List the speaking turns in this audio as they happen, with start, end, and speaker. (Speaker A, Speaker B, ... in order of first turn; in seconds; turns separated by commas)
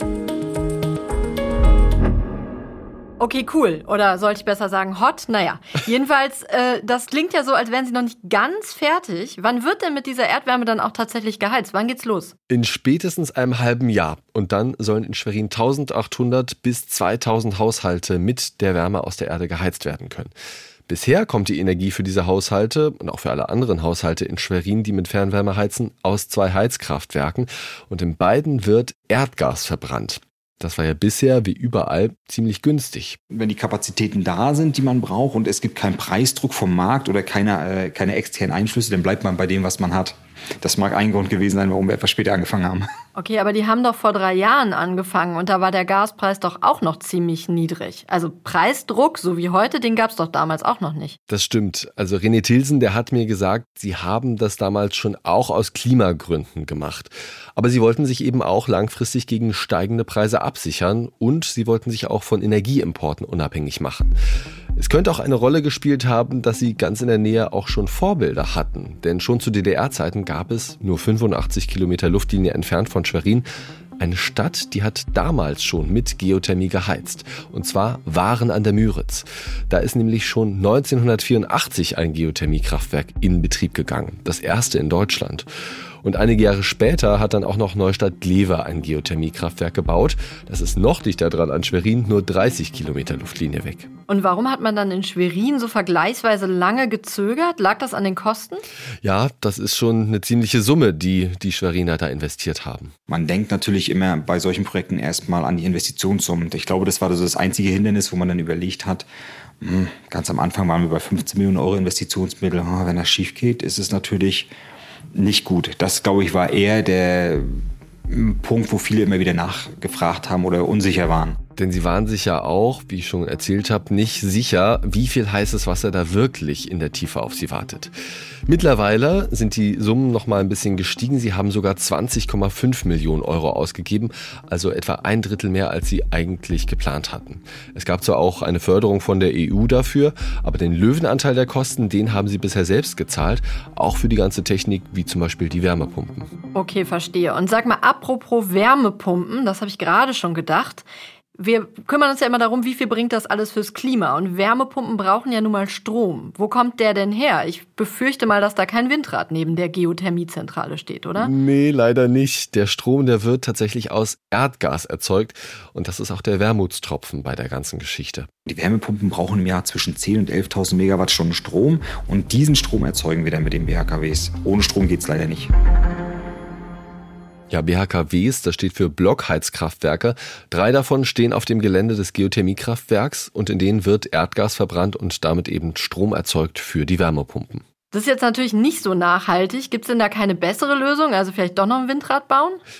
Speaker A: 3.2-12.3, Speaker B: 12.5-20.3, Speaker B: 20.9-33.2, Speaker C: 33.3-42.9, Speaker A: 43.1-51.2, Speaker B: 51.3-64.2, Speaker B: 64.8-73.4, Speaker B: 74.0-85.5, Speaker B: 86.0-93.9, Speaker A: 94.1-98.6, Speaker B: 99.0-102.9, Speaker C: 103.1-109.0, Speaker C: 109.6-114.5, Speaker C: 115.1-121.4, Speaker B: 121.5-127.9, Speaker B: 128.4-146.3, Speaker A: 146.5-150.8, Speaker A: 151.4-161.3, Speaker B: 161.2-168.3, Speaker C: 168.4-175.5, Speaker B: 177.5-187.6, Speaker A: 187.9-192.6